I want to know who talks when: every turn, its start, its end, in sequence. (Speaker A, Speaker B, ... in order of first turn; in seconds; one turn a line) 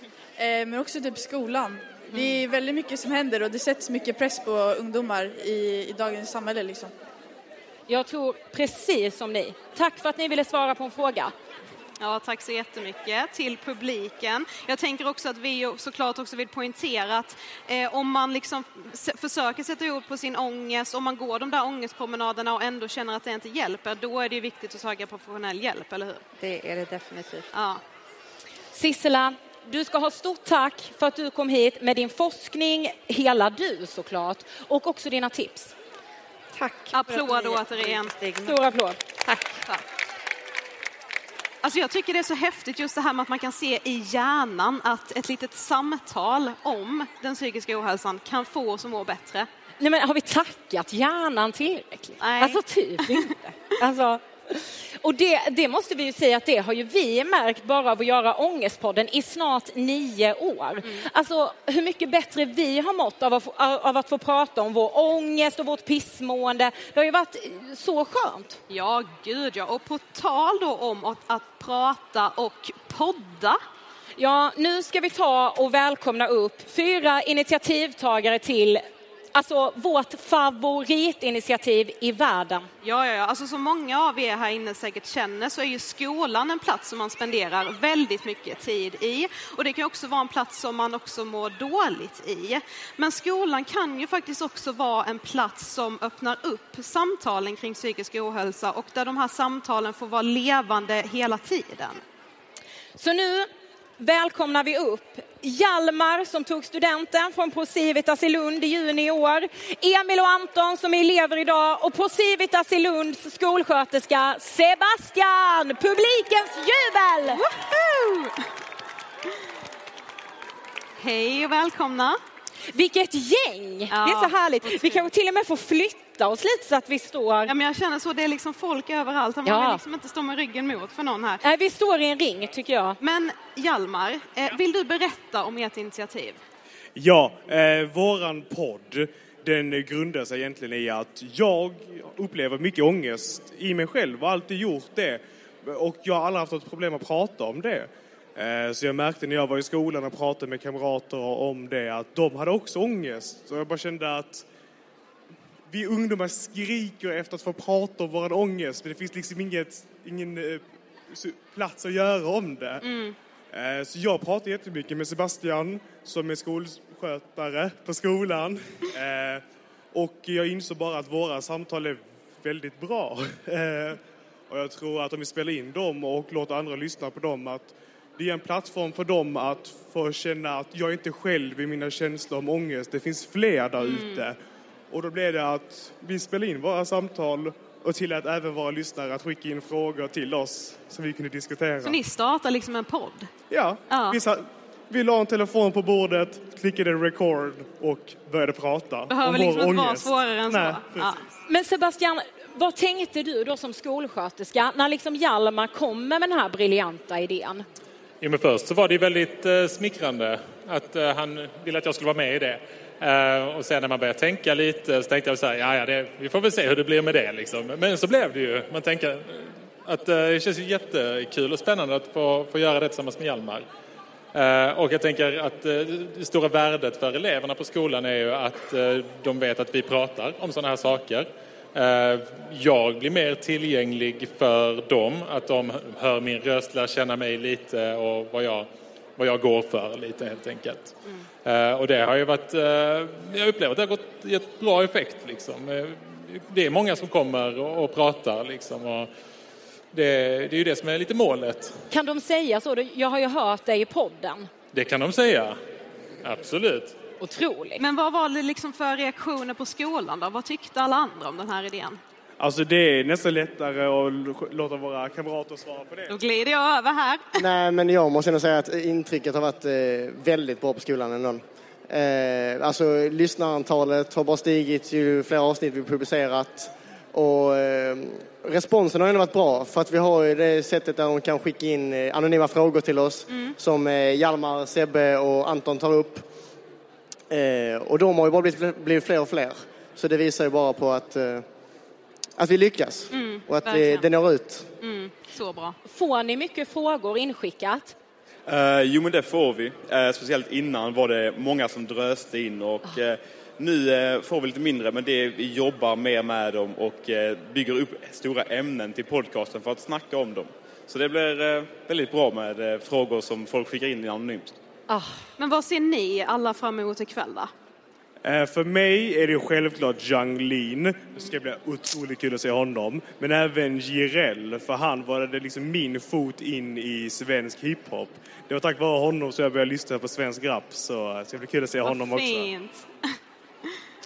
Speaker A: 0.4-6.9
Speaker B: 7.9-11.3
Speaker C: 12.0-26.2
Speaker D: 26.4-27.5
Speaker C: 27.5-27.8
Speaker B: 28.7-35.7
Speaker D: 36.5-38.6
Speaker C: 36.9-38.1
Speaker B: 38.5-39.0
Speaker D: 39.2-39.7
Speaker C: 41.6-49.5
Speaker B: 49.8-68.6
Speaker C: 52.2-53.4
Speaker C: 68.7-73.6
Speaker B: 74.2-78.8
Speaker B: 79.3-82.7
Speaker C: 82.8-102.0
Speaker B: 103.0-117.4
Speaker C: 117.2-118.5
Speaker C: 121.0-122.2
Speaker B: 122.7-127.5
Speaker C: 123.9-125.0
Speaker C: 127.5-131.4
Speaker B: 129.4-129.8
Speaker B: 131.4-133.0
Speaker C: 133.0-136.4
Speaker E: 137.0-154.5
Speaker E: 155.7-162.8
Speaker C: 162.8-163.2
Speaker E: 163.5-184.4
Speaker C: 183.8-184.3
Speaker E: 184.9-192.0
Speaker C: 191.8-193.3
Speaker E: 193.5-201.1
Speaker C: 193.9-194.2
Speaker C: 199.1-201.2
Speaker B: 201.5-207.7
Speaker F: 208.2-223.7
Speaker F: 224.3-249.1
Speaker F: 249.9-251.8
Speaker B: 251.9-254.5
Speaker F: 254.7-255.6
Speaker F: 256.2-257.0
Speaker B: 257.2-257.8
Speaker C: 257.8-262.0
Speaker E: 262.4-266.2
Speaker C: 266.1-267.4
Speaker G: 267.4-286.2
Speaker C: 283.3-283.6
Speaker G: 287.3-291.4
Speaker G: 292.4-294.7
Speaker C: 293.1-294.1
Speaker C: 294.8-295.8
Speaker B: 295.8-297.9
Speaker H: 298.5-314.5
Speaker B: 314.9-315.2
Speaker C: 315.4-317.5
Speaker E: 318.2-332.5
Speaker C: 331.8-333.2